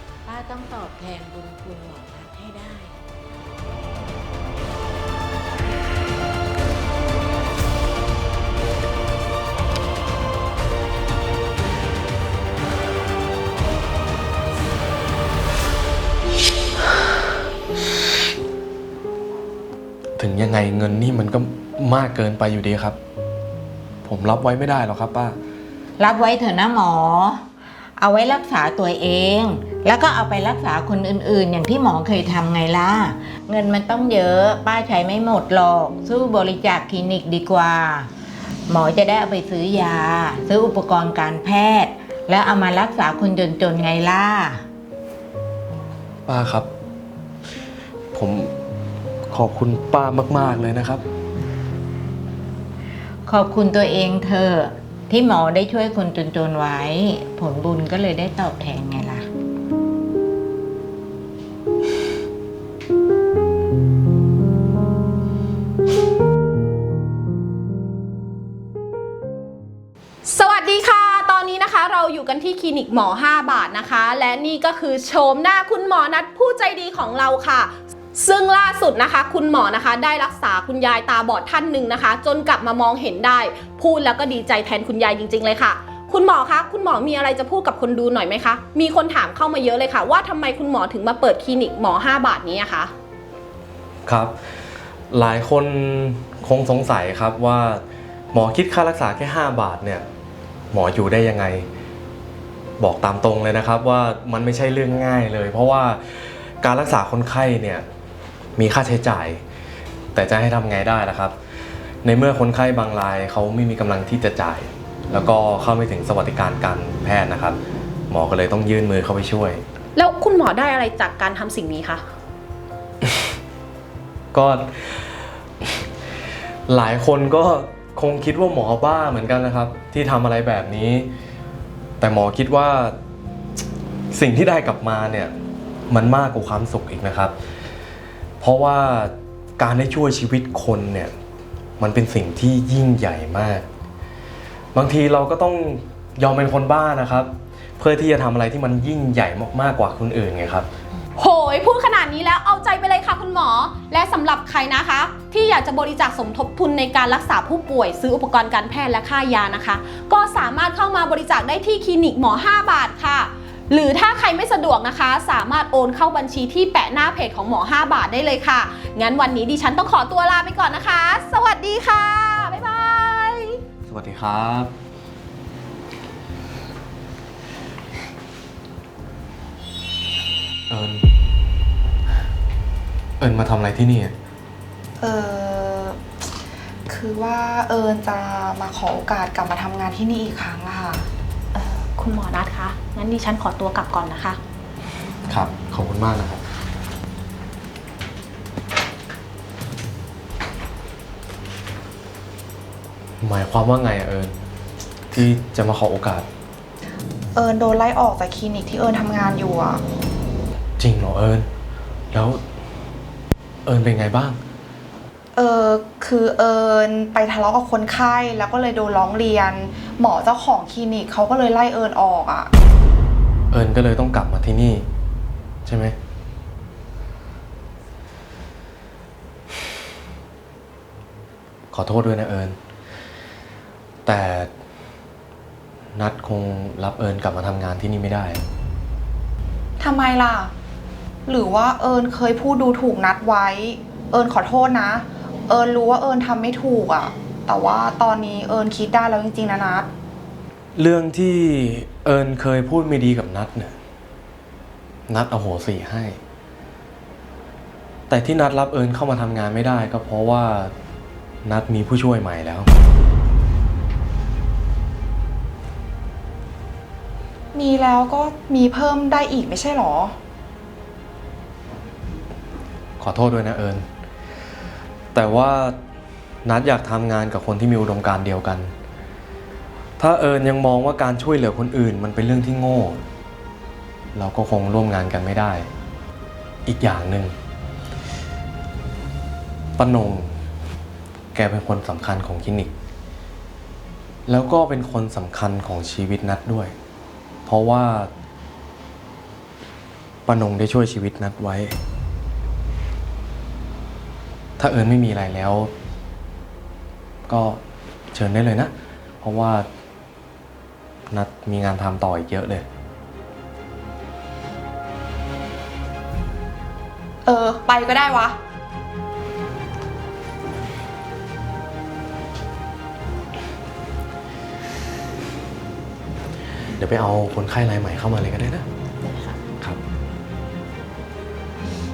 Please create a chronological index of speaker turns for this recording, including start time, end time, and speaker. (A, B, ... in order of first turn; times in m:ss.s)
0:00.2-0:03.0 A
0:20.2-0:23.0 B
0:24.0-0:25.4 B
0:26.0-0:38.1 A
0:38.7-0:44.6 A
0:46.3-0:46.7 B
0:48.1-0:48.5 B
0:49.3-0:51.0 B
0:53.2-0:59.3 A
1:10.2-1:32.9 C
1:34.0-1:34.4 B
1:35.1-1:40.1 B
1:40.7-1:41.7 B
1:42.8-1:47.8 B
1:48.6-1:49.4 B
1:50.1-1:51.3 B
1:52.0-1:57.6 B
1:58.1-1:59.6 B
2:00.0-2:02.0 C
2:03.0-2:03.3 B
2:04.3-2:05.8 B
2:06.7-2:11.1 B
2:12.0-2:13.0 B
2:14.1-2:15.4 B
2:15.9-2:17.3 B
2:18.4-2:21.1 B
2:21.8-2:23.6 B
2:24.7-2:30.7 B
2:31.2-2:53.6 C
2:53.8-2:54.7 B
3:00.7-3:01.1 B
3:03.2-3:04.1 B
3:05.0-3:06.0 D
3:06.9-3:11.1 D
3:11.5-3:14.4 C
3:15.3-3:16.4 B
3:23.2-3:24.3 B
3:25.1-3:26.2 B
3:27.3-3:29.8 D
3:30.8-3:31.5 B
3:32.1-3:32.4 B
3:33.6-3:34.4 B
3:35.3-3:42.5 D
3:43.5-3:44.9 B
3:45.6-3:46.0 B
3:51.7-3:52.6 B
3:54.0-3:54.5 B
3:55.9-3:58.4 B
3:59.8-4:00.5 D
4:01.2-4:09.9 D
4:10.8-4:13.8 B
4:15.1-4:16.2 B
4:18.1-4:20.7 B
4:21.4-4:22.7 B
4:27.5-4:30.2 D
4:33.0-4:33.8 B
4:35.1-4:35.8 B
4:36.4-4:38.7 B
4:40.0-4:43.0 B
4:44.1-4:45.7 B
4:46.6-4:47.3 B
4:49.8-4:50.4 B
4:51.3-4:52.7 B
4:54.3-4:56.7 B
4:57.5-4:58.1 B
5:00.3-5:01.7 B
5:04.6-5:05.7 B
5:07.3-5:07.6 B
5:08.1-5:09.7 B
5:11.1-5:12.6 B
5:17.2-5:18.4 D
5:26.8-5:28.6 B